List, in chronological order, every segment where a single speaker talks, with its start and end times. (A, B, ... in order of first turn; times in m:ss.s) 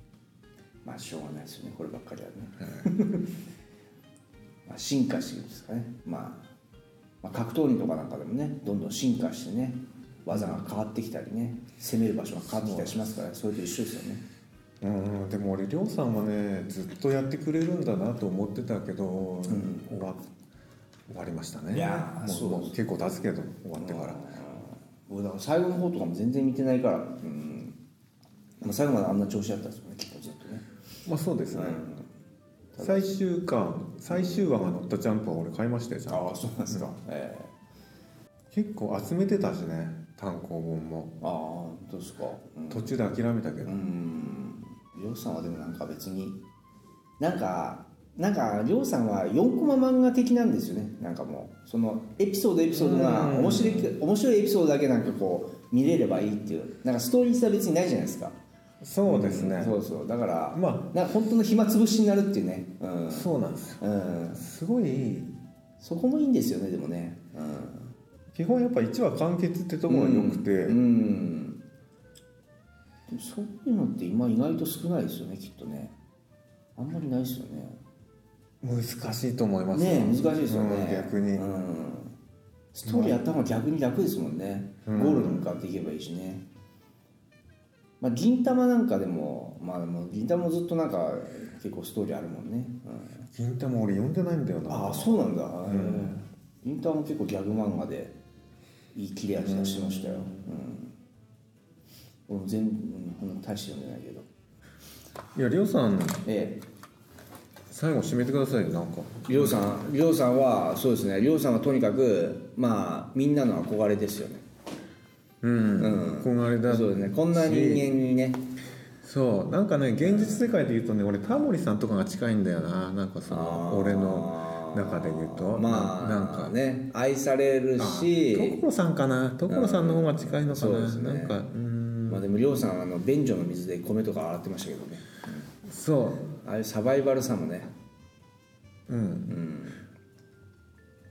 0:00.8-0:03.3 A
0:04.6-0:06.5 A
0:07.2-0:14.2 A
0:10.3-0:10.6 B
0:12.5-0:13.0 B
0:14.8-0:20.2 B
0:19.5-0:20.0 A
0:21.1-0:24.2 B
0:21.7-0:22.8 A
0:23.8-0:27.8 A
0:28.6-0:30.6 A
0:31.0-0:31.8 B
0:31.5-0:32.1 A
0:32.7-0:33.2 A
0:32.8-0:36.9 B
0:34.1-0:34.5 A
0:36.1-0:37.5 A
0:38.5-0:41.2 B
0:41.2-0:43.0 A
0:42.7-0:43.8 B
0:43.6-0:46.4 A
0:47.2-0:58.4 A
0:52.7-0:53.9 B
0:58.8-0:59.8 B
0:59.0-1:04.4 A
1:00.5-1:01.3 B
1:03.1-1:03.8 B
1:04.3-1:05.4 B
1:05.8-1:07.9 A
1:08.3-1:10.8 B
1:09.9-1:11.6 A
1:13.1-1:15.9 A
1:16.8-1:17.8 A
1:18.6-1:21.4 B
1:19.7-1:22.1 A
1:22.7-1:26.4 A
1:22.8-1:23.2 B
1:24.8-1:25.5 B
1:28.0-1:33.2 A
1:33.3-1:36.2 B
1:34.7-1:38.1 A
1:38.9-1:40.9 A
1:39.4-1:40.5 B
1:42.3-1:44.3 A
1:45.3-1:46.2 B
1:46.2-1:46.6 A
1:47.7-1:49.8 B
1:49.3-1:54.4 A
1:55.4-1:57.9 B
1:55.8-1:58.4 A
1:59.0-2:06.6 B
2:00.0-2:00.5 A
2:01.2-2:01.5 A
2:03.3-2:08.6 A
2:07.8-2:12.2 B
2:09.5-2:11.4 A
2:12.1-2:15.5 A
2:15.6-2:16.3 B
2:16.2-2:17.7 A
2:18.9-2:19.4 B
2:19.3-2:19.9 A